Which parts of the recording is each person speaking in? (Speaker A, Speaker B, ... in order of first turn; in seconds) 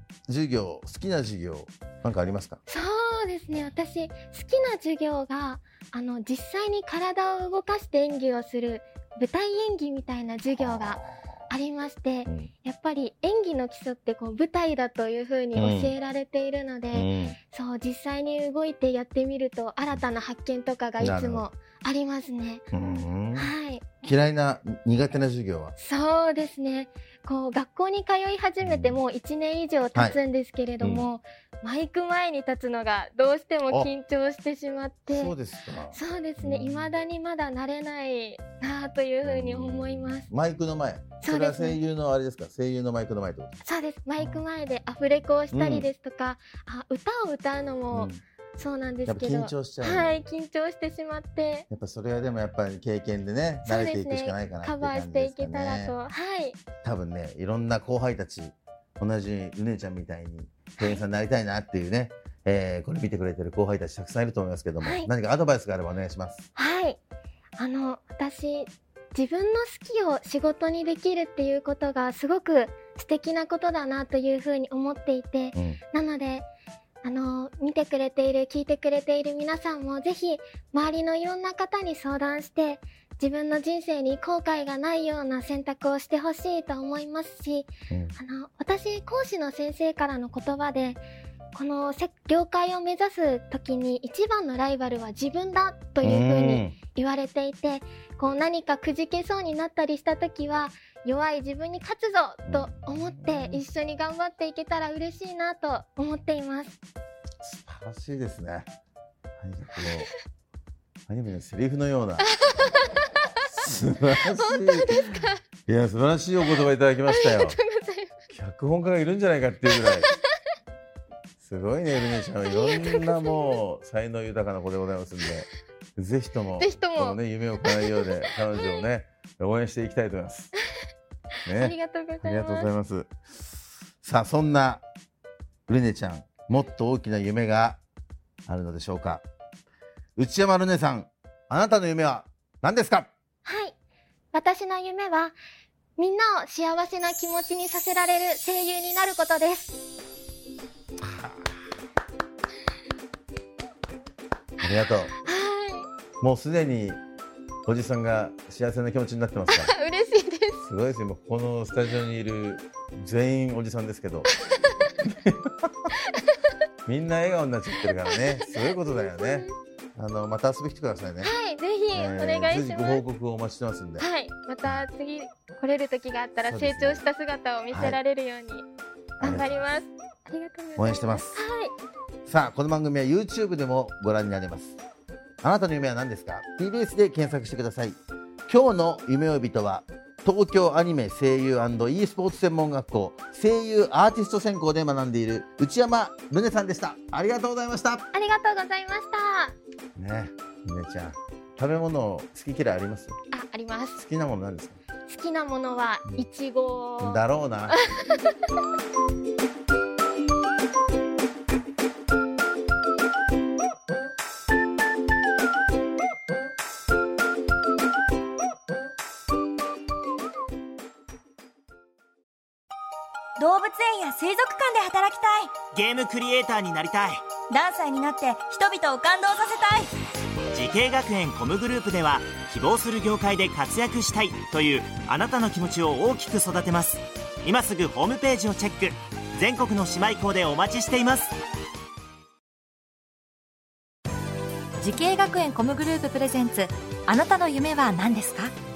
Speaker A: 0.3-2.6, 10.6-11.2, 15.5-16.0, 16.9-17.4, 21.0-21.5, 22.7-25.8, 28.6-29.0, 30.8-31.1, 35.1-36.9, 39.2-43.6, 45.5-45.9, 47.9-48.2, 49.0-50.2, 51.7-56.0, 56.8-66.5, 75.5-75.8, 87.9-88.2, 96.0-96.8, 102.5-103.6, 107.4-108.7, 109.4-110.1, 111.1-112.3, 113.5-117.6, 118.3-120.1, 121.4-130.5, 131.5-134.8, 135.7-137.8, 138.5-139.2, 140.2-143.1, 151.0-151.5, 154.6-155.2, 156.2-157.0, 157.7-159.7, 160.6-164.3, 165.0-165.9, 166.9-171.3, 171.9-174.1, 176.4-177.0, 177.7-178.0, 179.2-179.6, 180.8-181.4, 182.3-184.8, 185.4-198.1, 200.0-203.2, 204.0-204.8, 207.0-207.8
Speaker B: 2.7-22.6, 23.4-23.9, 25.8-35.4, 35.9-40.3, 41.2-41.8, 43.6-51.7, 53.6-56.6, 60.8-61.0, 64.8-65.1, 66.6-67.0, 67.6-76.5, 77.0-106.8, 112.2-112.9, 114.4-115.4, 116.6-118.2, 119.7-120.3, 122.5-123.6, 126.6-128.8, 131.5-132.7, 143.4-143.8, 144.3-145.4, 146.0-149.8, 155.2-155.9, 159.5-160.7, 164.3-164.9, 166.0-166.5, 167.8-169.6, 171.2-173.0, 174.0-178.7, 179.2-181.8, 198.1-199.6, 203.3-204.1, 205.1-208.4
Speaker C: 223.4-225.5, 227.5-229.9
Speaker D: 225.7-227.2, 230.5-241.3
Speaker E: 244.8-248.5